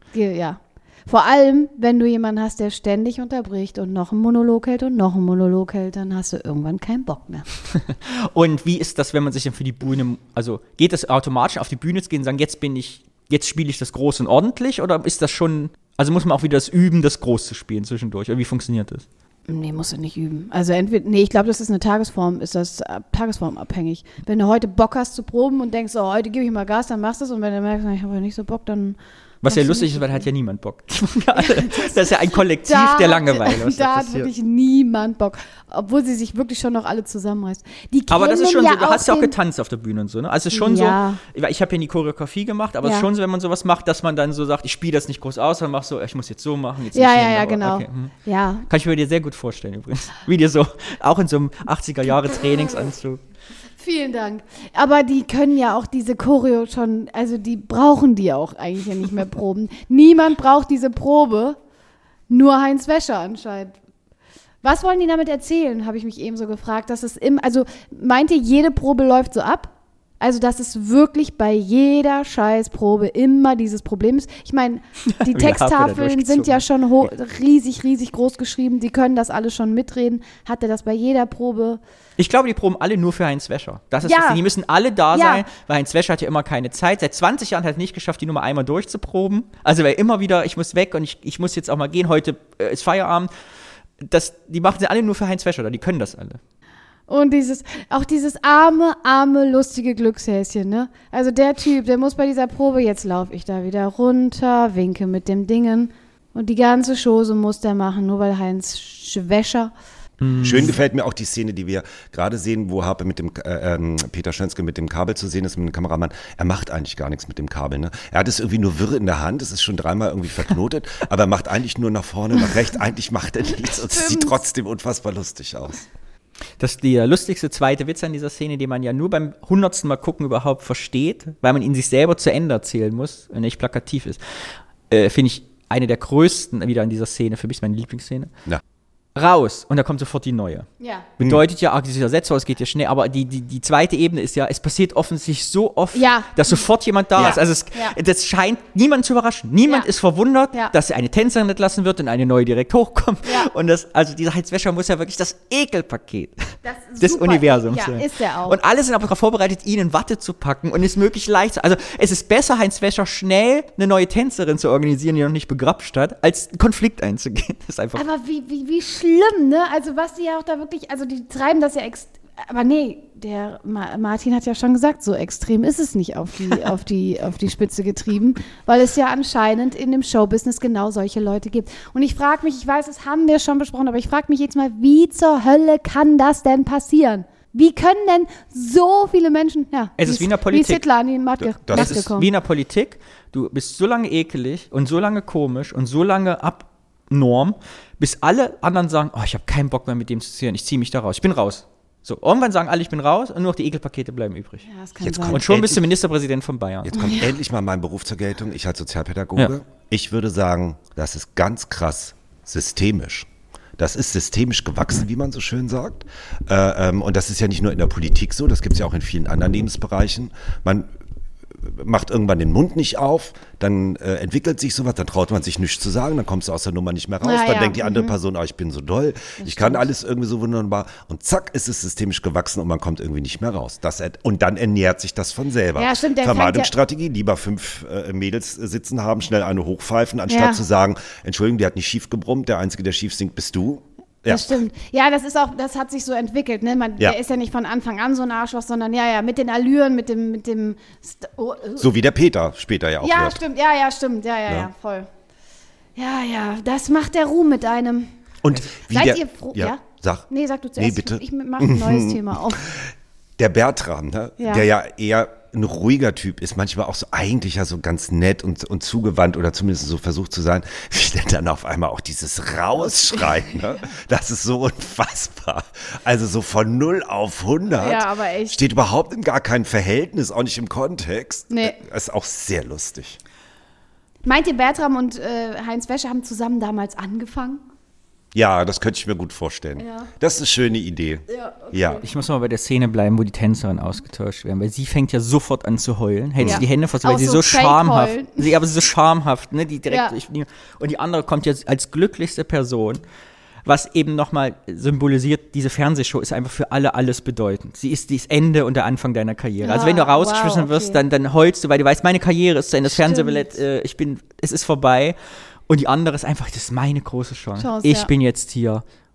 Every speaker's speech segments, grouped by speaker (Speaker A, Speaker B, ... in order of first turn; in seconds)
Speaker A: 0.1-7.5, 19.5-30.3, 31.4-39.3, 40.5-41.2, 42.8-43.1, 46.9-48.7, 53.8-61.6, 62.3-63.8, 64.6-81.8, 84.0-84.4, 85.1-85.5, 97.1-109.7, 123.6-124.4, 140.8-141.1, 145.9-146.6, 147.2-148.0, 153.2-153.5, 156.6-158.6, 167.9-192.3, 204.7-205.4, 227.2-228.2, 229.4-229.9, 235.8-236.7, 240.3-240.6, 244.3-251.9, 253.0-255.1, 256.0-258.1, 258.9-262.6, 264.4-264.7, 273.1-273.5, 277.8-278.6, 281.5-281.8, 284.2-287.6, 289.8-290.1, 291.3-292.1, 296.4-298.5, 299.9-300.1, 309.6-311.0, 312.9-313.6, 317.6-318.1
Speaker B: 7.9-19.1, 29.4-34.3, 38.1-48.1, 48.7-53.2, 75.2-76.6, 82.2-93.3, 94.0-96.4, 110.2-110.8, 126.6-134.2, 134.9-138.3, 139.2-168.1, 190.0-190.8, 191.7-204.7, 205.3-207.0, 292.0-303.0, 303.7-315.2, 315.7-318.8
Speaker C: 110.4-125.9, 191.6-192.0, 205.0-205.9, 206.9-213.3, 213.8-220.9, 221.6-244.6, 251.8-253.4, 258.4-260.2, 260.8-262.8, 263.4-283.2, 288.3-292.0